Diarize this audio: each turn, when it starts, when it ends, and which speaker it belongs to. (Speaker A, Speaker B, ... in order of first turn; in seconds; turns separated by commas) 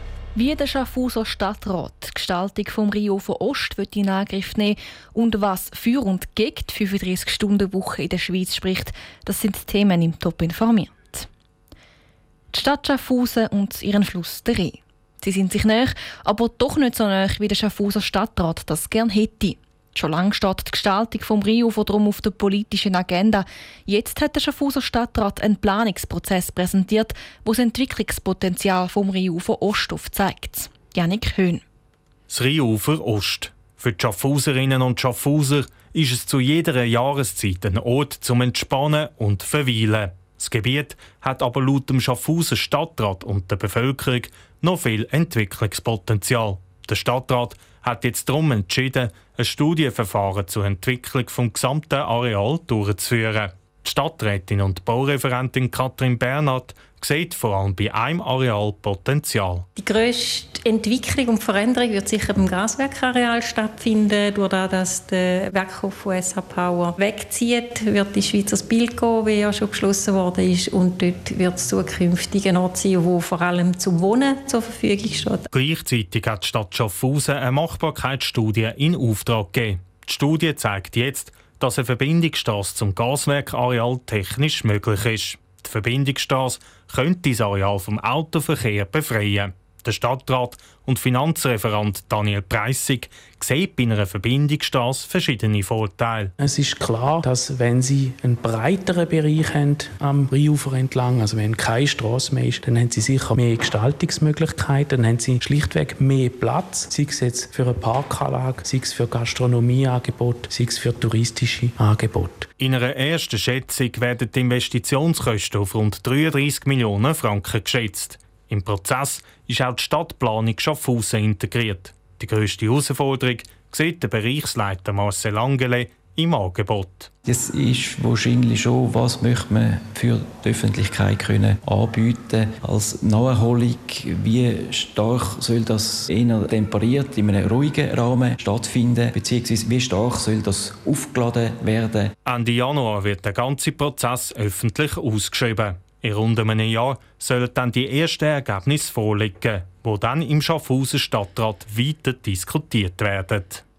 Speaker A: 0.3-11.3, Speaker A: 12.5-31.6, Speaker B: 32.3-59.6, Speaker C: 59.8-75.4, Speaker B: 75.5-96.3, Speaker D: 96.4-112.5, Speaker B: 112.6-127.1, Speaker E: 127.2-142.1, Speaker B: 142.2-153.6